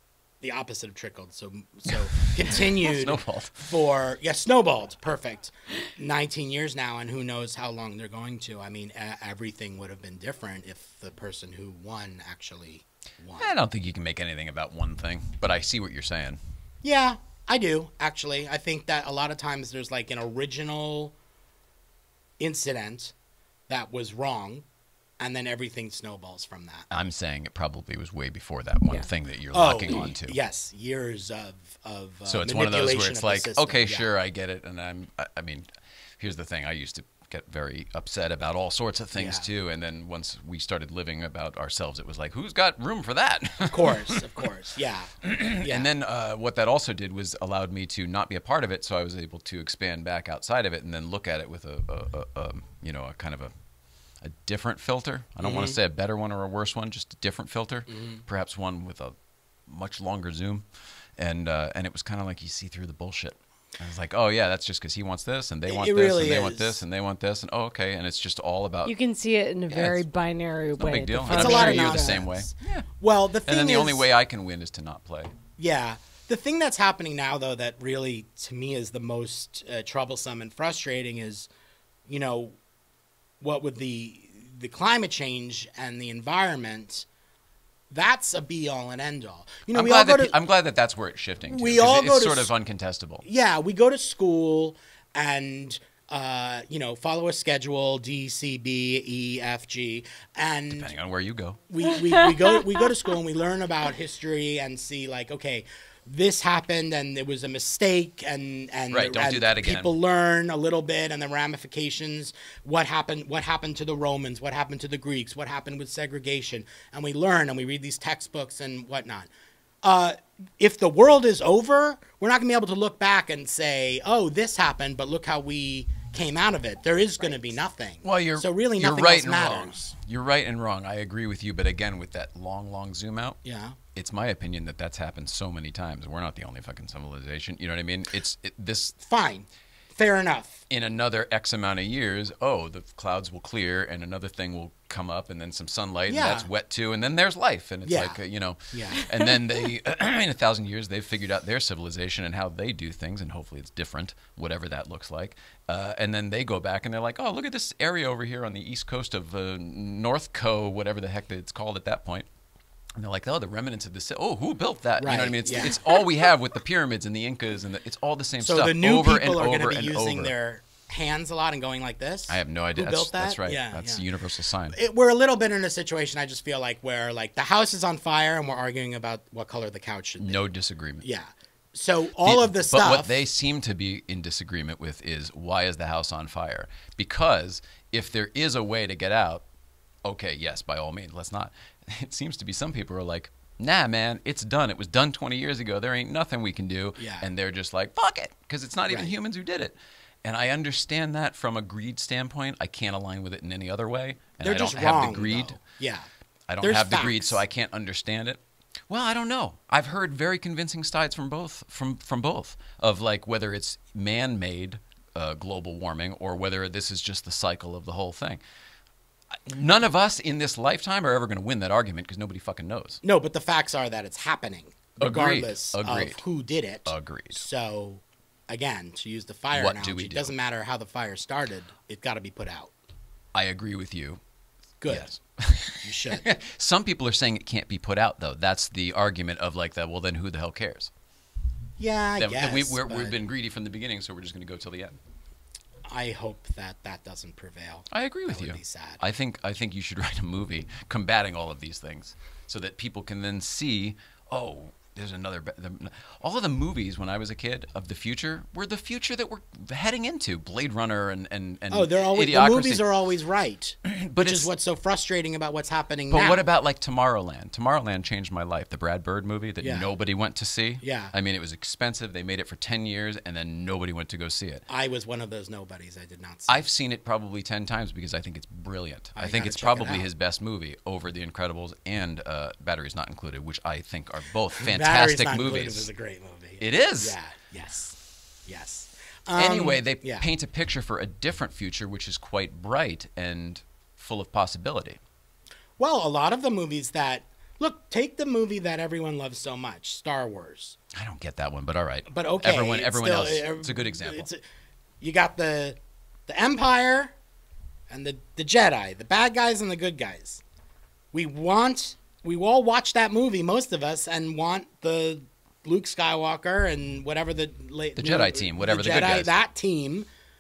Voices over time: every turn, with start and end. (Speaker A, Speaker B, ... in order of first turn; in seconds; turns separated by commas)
Speaker A: 0.4-13.5, Speaker B: 2.4-3.8, Speaker B: 13.4-16.4, Speaker A: 16.8-21.1, Speaker A: 22.4-23.1, Speaker A: 23.7-24.6, Speaker A: 25.2-26.9, Speaker B: 26.9-30.4, Speaker A: 29.5-34.1, Speaker B: 32.3-44.2, Speaker A: 39.1-39.5, Speaker A: 43.7-45.9, Speaker B: 45.2-53.5, Speaker B: 54.2-59.2, Speaker A: 55.4-55.8, Speaker A: 57.9-58.2, Speaker B: 59.7-69.0, Speaker A: 65.7-66.8, Speaker C: 68.8-72.2, Speaker B: 69.7-70.1, Speaker B: 70.8-72.9, Speaker A: 71.3-74.1, Speaker B: 73.5-75.3, Speaker A: 75.6-81.5, Speaker A: 82.1-82.6, Speaker A: 83.4-87.1, Speaker A: 87.9-90.4, Speaker B: 89.7-93.2, Speaker A: 91.5-92.5, Speaker A: 93.2-100.9, Speaker B: 100.7-101.6, Speaker A: 101.7-119.3, Speaker B: 108.9-110.0, Speaker A: 119.8-129.9, Speaker B: 128.0-133.4, Speaker A: 133.4-133.8, Speaker B: 133.9-139.0, Speaker A: 139.0-140.6, Speaker B: 140.7-162.3, Speaker A: 146.1-146.5, Speaker A: 147.8-148.2, Speaker A: 148.7-149.1, Speaker B: 163.0-170.3, Speaker A: 165.0-165.9, Speaker A: 168.4-174.0, Speaker B: 172.3-174.8, Speaker A: 174.7-180.4, Speaker B: 180.2-181.1, Speaker A: 181.0-183.1, Speaker B: 182.2-189.4, Speaker B: 190.1-205.6, Speaker A: 197.0-197.3, Speaker A: 204.4-206.1, Speaker B: 206.5-218.4, Speaker A: 206.6-207.4, Speaker B: 219.3-223.0, Speaker A: 223.0-232.7, Speaker B: 225.0-226.2, Speaker B: 226.9-227.4, Speaker B: 229.5-230.3, Speaker B: 233.3-234.2, Speaker A: 234.8-235.2, Speaker B: 234.9-240.9, Speaker A: 235.8-236.3, Speaker A: 241.8-243.2, Speaker B: 242.2-245.0, Speaker A: 245.9-249.0, Speaker B: 247.9-262.9, Speaker A: 261.7-266.4, Speaker B: 263.9-264.5, Speaker B: 266.1-274.6, Speaker A: 269.6-269.9, Speaker A: 270.8-271.1, Speaker A: 274.7-276.6, Speaker B: 276.5-285.9, Speaker A: 279.2-280.1, Speaker A: 284.6-290.3, Speaker B: 286.6-287.2, Speaker B: 289.3-295.0, Speaker A: 295.8-300.8, Speaker B: 300.9-304.3, Speaker A: 302.1-304.4, Speaker A: 305.0-307.1, Speaker A: 307.9-310.4, Speaker A: 311.1-320.1, Speaker B: 318.0-319.3